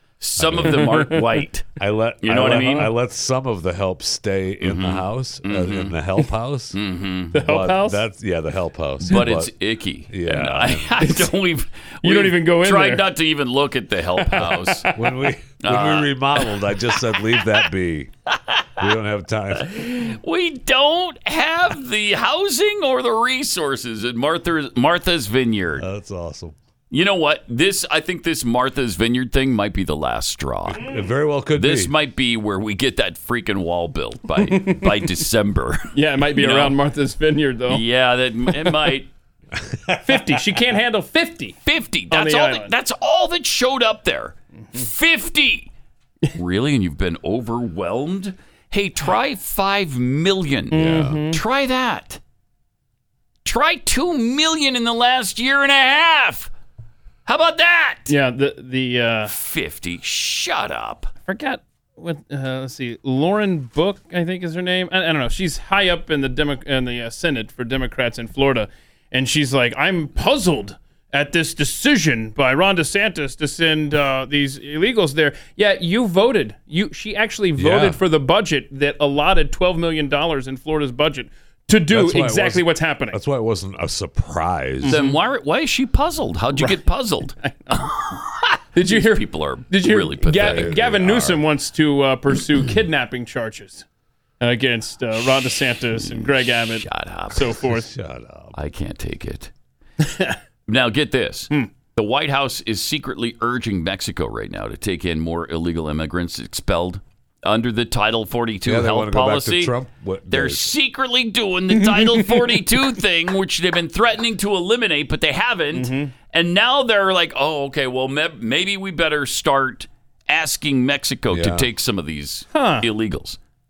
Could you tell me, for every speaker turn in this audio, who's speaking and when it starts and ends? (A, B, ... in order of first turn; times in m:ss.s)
0:00.2-0:01.6 A
0:00.4-0:01.1 B
0:00.6-0:01.0 C
0:01.8-0:06.8 B
0:02.2-0:02.9 A
0:04.6-0:06.0 A
0:06.7-0:07.4 A
0:07.3-0:08.0 C
0:07.3-0:09.5 B
0:09.0-0:15.0 A
0:10.1-0:11.0 B
0:11.0-0:11.3 C
0:12.0-0:13.1 C
0:14.2-0:14.9 C
0:14.9-0:18.1 B
0:15.6-0:16.5 A
0:17.1-0:17.4 A
0:18.8-0:19.8 B
0:19.6-0:25.8 A
0:25.8-0:26.6 B
0:26.9-0:30.9 A
0:30.8-0:31.9 B
0:31.5-0:36.8 A
0:34.4-0:35.1 C
0:35.9-0:37.8 C
0:37.7-0:39.1 A
0:39.6-0:40.5 B
0:40.0-0:41.6 C
0:41.6-0:45.7 A
0:42.1-0:42.7 C
0:46.3-0:52.2 A
0:50.7-0:51.4 C
0:50.7-0:51.2 B
0:53.4-0:56.5 A
0:57.2-0:58.1 A
0:58.1-0:59.3 C
0:59.2-1:01.1 A
1:01.3-1:23.2 C
1:17.6-1:18.0 B
1:21.9-1:25.0 B
1:24.8-1:25.2 C
1:24.9-1:30.8 A
1:26.5-1:26.8 C
1:27.4-1:27.8 C
1:28.7-1:33.8 C
1:30.4-1:31.4 B
1:34.4-1:37.9 C
1:35.9-1:37.6 A
1:37.6-1:38.5 B
1:38.5-1:39.5 A
1:40.0-1:40.4 C
1:40.7-1:49.7 A
1:48.6-1:50.7 B
1:50.3-2:03.4 A
1:51.8-1:52.6 C
1:55.7-1:56.1 C
2:01.3-2:01.7 B
2:02.5-2:02.8 C